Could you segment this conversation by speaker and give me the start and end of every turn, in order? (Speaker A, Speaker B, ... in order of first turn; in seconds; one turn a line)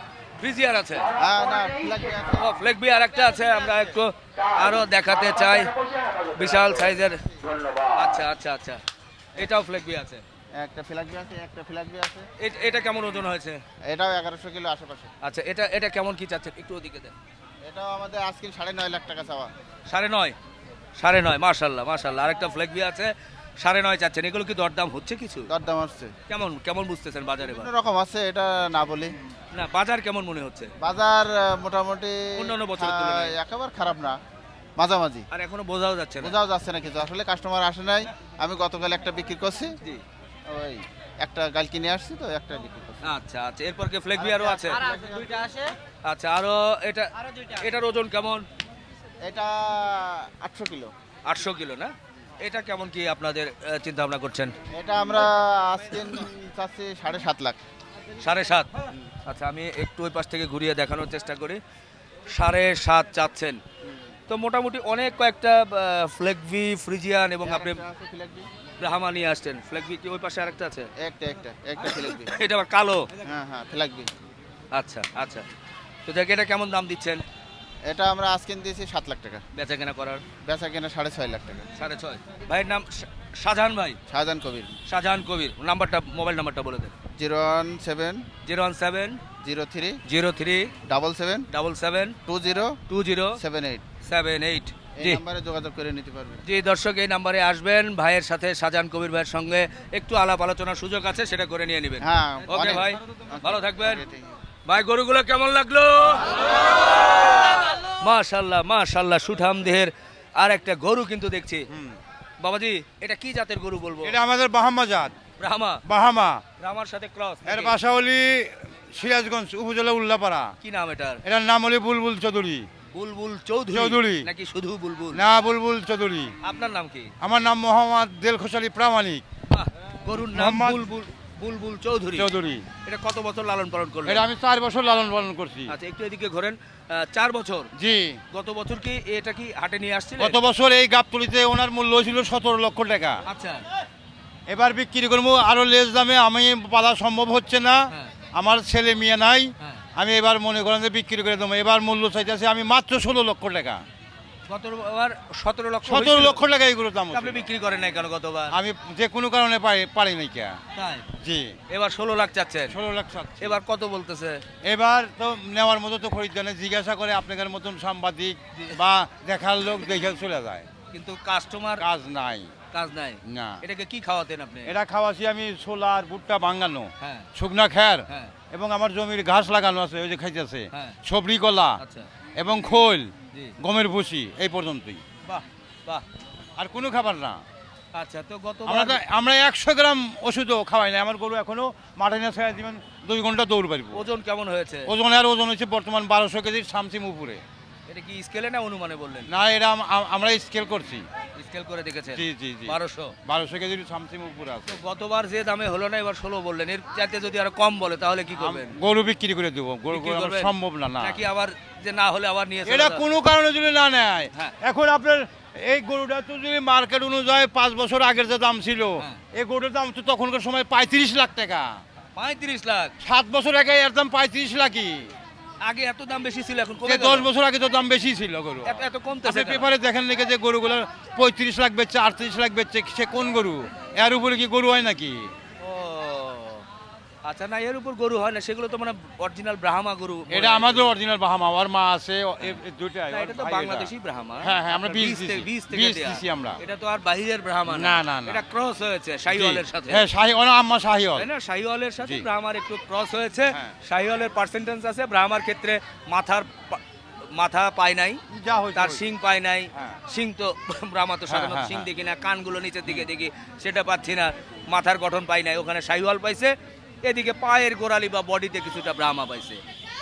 Speaker A: 0.4-1.1
Speaker B: 1.2-2.5
Speaker A: 2.4-5.7
Speaker A: 6.4-7.2
Speaker A: 8.0-8.8
Speaker A: 9.4-10.2
Speaker B: 10.6-12.3
Speaker A: 12.4-13.6
Speaker B: 13.9-15.1
Speaker A: 15.2-17.1
Speaker B: 17.6-19.5
Speaker A: 19.9-20.4
Speaker A: 21.0-25.5
Speaker B: 25.5-26.1
Speaker A: 26.3-27.7
Speaker B: 27.4-29.1
Speaker A: 29.5-30.7
Speaker B: 30.8-34.2
Speaker A: 32.4-33.4
Speaker B: 34.8-35.3
Speaker A: 35.3-36.4
Speaker B: 36.2-39.7
Speaker B: 40.5-43.1
Speaker A: 43.0-44.8
Speaker B: 44.2-45.6
Speaker A: 46.0-48.5
Speaker B: 49.2-50.9
Speaker A: 51.3-54.5
Speaker B: 54.7-57.6
Speaker A: 58.2-58.7
Speaker A: 59.2-61.6
Speaker A: 62.3-63.6
Speaker A: 64.3-67.8
Speaker B: 67.4-68.5
Speaker A: 68.8-70.9
Speaker B: 71.0-72.3
Speaker A: 71.9-73.1
Speaker B: 73.2-74.1
Speaker A: 74.7-75.5
Speaker A: 76.1-77.2
Speaker B: 77.8-79.4
Speaker A: 79.5-80.2
Speaker B: 80.4-81.7
Speaker A: 81.8-84.0
Speaker B: 84.1-84.8
Speaker A: 84.9-86.9
Speaker B: 87.2-88.3
Speaker A: 88.4-89.2
Speaker B: 89.4-90.0
Speaker A: 90.1-90.7
Speaker B: 90.9-91.5
Speaker A: 91.5-92.2
Speaker B: 92.3-92.8
Speaker A: 92.9-93.4
Speaker B: 93.4-93.8
Speaker A: 94.0-95.2
Speaker B: 95.0-96.4
Speaker A: 96.4-104.0
Speaker B: 102.0-104.3
Speaker A: 104.7-106.3
Speaker A: 108.0-111.7
Speaker A: 112.4-114.2
Speaker C: 114.0-115.2
Speaker A: 115.4-115.8
Speaker C: 115.9-116.4
Speaker A: 116.6-117.8
Speaker C: 117.5-120.5
Speaker A: 120.6-121.2
Speaker C: 121.2-122.7
Speaker A: 122.9-125.2
Speaker C: 123.7-124.3
Speaker C: 125.1-126.3
Speaker A: 126.4-127.1
Speaker C: 127.2-129.2
Speaker A: 129.5-132.3
Speaker C: 130.3-130.9
Speaker C: 132.2-132.7
Speaker A: 132.8-134.3
Speaker C: 134.1-135.7
Speaker A: 135.7-137.7
Speaker C: 137.8-138.2
Speaker A: 138.3-140.4
Speaker C: 140.2-143.2
Speaker A: 143.3-143.6
Speaker C: 144.5-147.8
Speaker C: 148.3-153.8
Speaker A: 154.5-156.4
Speaker C: 155.8-157.5
Speaker A: 157.1-158.6
Speaker C: 158.5-160.6
Speaker A: 160.8-161.1
Speaker C: 161.2-161.5
Speaker A: 161.7-162.8
Speaker C: 162.7-163.6
Speaker A: 163.4-164.4
Speaker C: 164.6-170.7
Speaker A: 170.9-171.8
Speaker C: 171.8-172.5
Speaker A: 172.7-174.7
Speaker C: 173.3-173.6
Speaker C: 174.7-181.8
Speaker A: 177.0-177.3
Speaker A: 178.1-178.3
Speaker A: 181.8-182.1
Speaker C: 182.4-185.0
Speaker A: 185.2-186.1
Speaker C: 186.6-187.4
Speaker A: 187.9-189.0
Speaker C: 188.7-194.0
Speaker A: 193.9-194.9
Speaker C: 194.9-197.4
Speaker A: 197.9-199.3
Speaker C: 199.3-201.1
Speaker A: 201.4-203.1
Speaker C: 202.1-204.8
Speaker A: 204.7-208.7
Speaker C: 208.4-211.2
Speaker A: 209.9-213.1
Speaker C: 212.7-221.7
Speaker A: 222.2-222.9
Speaker C: 223.0-225.1
Speaker A: 225.6-227.3
Speaker C: 226.8-235.3
Speaker A: 228.7-229.7
Speaker A: 235.6-236.6
Speaker A: 237.2-240.9
Speaker C: 240.3-243.9
Speaker A: 243.1-250.0
Speaker C: 244.4-246.6
Speaker C: 247.7-248.4
Speaker C: 249.3-251.3
Speaker A: 251.2-256.8
Speaker A: 257.3-258.2
Speaker C: 258.3-259.0
Speaker A: 258.8-269.6
Speaker C: 261.3-261.9